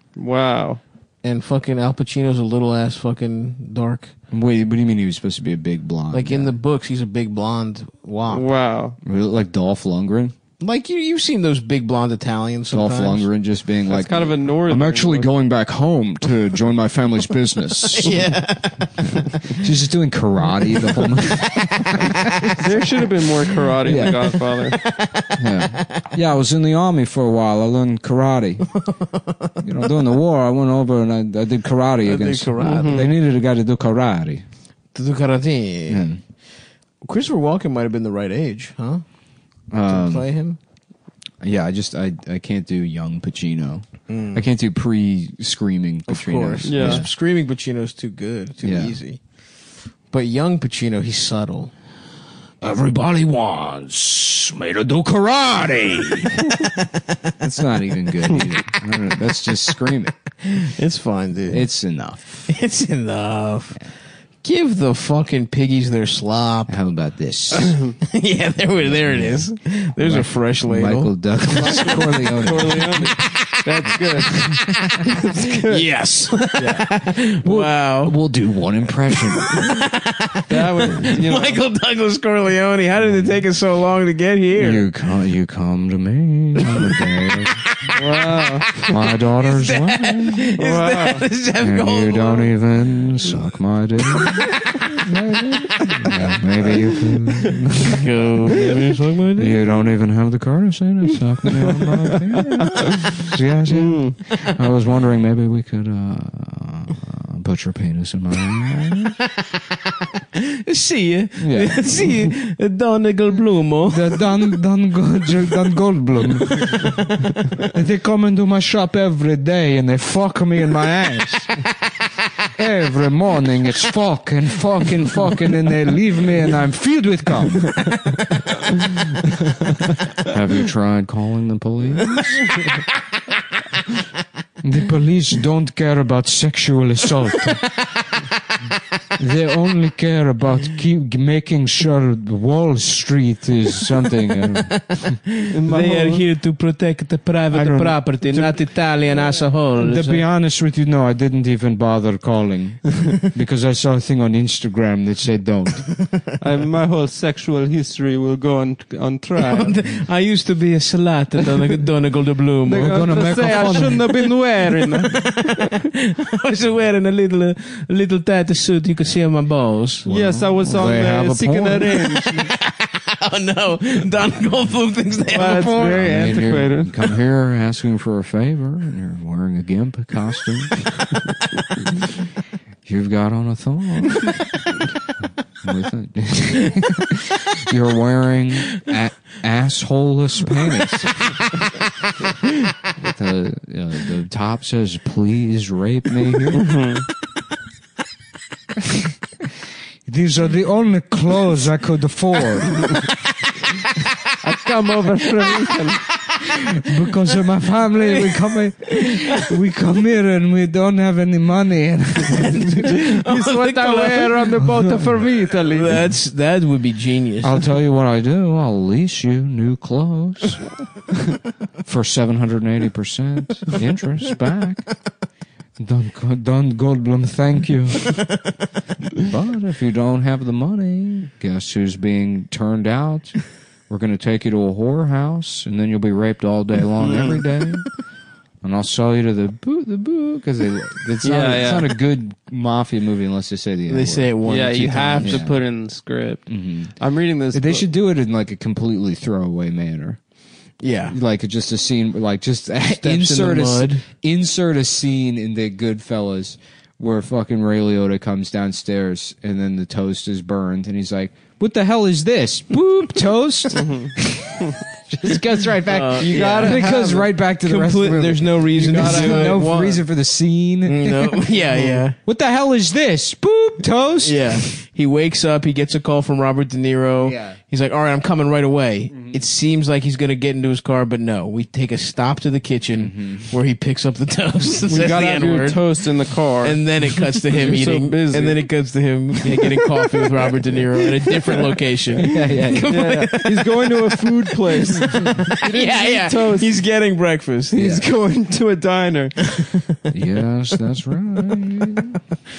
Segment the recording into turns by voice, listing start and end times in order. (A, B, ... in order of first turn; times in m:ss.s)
0:00.2-0:00.8 A
0:01.2-0:04.1 B
0:04.3-0:06.6 C
0:06.1-0:08.5 B
0:08.3-0:09.0 A
0:09.0-0:10.3 C
0:10.6-0:13.3 B
0:12.7-0:18.3 C
0:13.9-0:15.3 A
0:17.9-0:19.1 B
0:19.5-0:22.1 C
0:22.6-0:23.0 B
0:22.6-0:24.8 A
0:23.8-0:24.4 C
0:24.0-0:25.3 B
0:25.4-0:29.0 C
0:28.8-0:29.4 B
0:29.6-0:34.4 C
0:32.0-0:33.0 B
0:32.6-0:33.1 A
0:34.9-0:40.6 B
0:35.9-0:36.2 C
0:39.7-0:40.3 C
0:41.4-0:47.1 C
0:44.1-0:44.5 B
0:46.1-0:51.7 B
0:46.6-0:47.0 A
0:48.6-0:49.0 C
0:52.6-0:56.4 C
0:57.4-1:00.4 C
1:00.6-1:06.9 B
1:01.5-1:02.6 C
1:06.7-1:07.8 C
1:08.0-1:14.9 B
1:08.8-1:13.1 C
1:12.4-1:16.8 A
1:15.7-1:18.3 B
1:17.4-1:19.8 C
1:19.5-1:24.9 B
1:20.5-1:21.6 A
1:23.0-1:23.4 C
1:24.5-1:27.8 C
1:28.0-1:28.9 A
1:28.9-1:30.4 C
1:29.4-1:33.0 B
1:30.6-1:31.2 A
1:31.6-1:38.0 C
1:36.1-1:37.1 B
1:37.9-1:39.7 B
1:39.4-1:49.2 C
1:43.7-1:44.2 A
1:50.6-1:54.5 B
1:51.4-1:52.1 C
1:53.9-1:57.1 C
1:57.7-2:01.6 C
2:02.6-2:07.9 C
2:10.2-2:12.2 C
2:14.6-2:17.7 C
2:19.2-2:25.2 C
2:25.4-2:26.3 A
2:25.6-2:30.3 B
2:27.5-2:28.0 C
2:27.9-2:28.7 A
2:29.5-2:36.2 C
2:36.3-2:40.0 A
2:39.4-2:45.6 B
2:42.7-2:44.1 C
2:42.8-2:45.5 A
2:46.2-2:50.1 B
2:50.0-2:52.0 C
2:50.1-2:52.5 A
2:52.0-2:56.1 B
2:55.3-2:57.0 A
2:55.9-3:01.0 C
3:02.8-3:04.6 C
3:05.6-3:11.5 C
3:12.9-3:16.8 C
3:16.6-3:17.0 A
3:20.0-3:23.1 C
3:24.4-3:26.1 A
3:26.8-3:32.7 C
3:28.0-3:29.1 B
3:32.3-3:37.7 B
3:33.2-3:36.0 A
3:37.4-3:40.8 C
3:41.8-3:45.2 C
3:45.8-3:48.5 C
3:49.2-4:05.9 C
3:57.0-3:57.5 A
4:01.2-4:01.9 A
4:03.9-4:05.5 B
4:04.4-4:07.9 A
4:06.5-4:31.6 C
4:10.8-4:11.2 B
4:12.8-4:14.1 B
4:23.8-4:24.4 A
4:25.8-4:29.7 B
4:26.2-4:27.3 A
4:28.8-4:30.0 A
4:30.8-4:32.2 B
4:31.8-4:32.0 A
4:32.2-4:34.8 C
4:34.2-4:58.0 B
4:37.2-4:37.6 C
4:39.1-4:39.4 C
4:43.0-4:43.6 C
4:44.9-4:48.7 A
4:52.2-4:53.0 C
4:52.9-4:56.8 A
4:57.8-4:58.0 C
4:57.8-4:59.8 A
5:00.1-5:02.1 C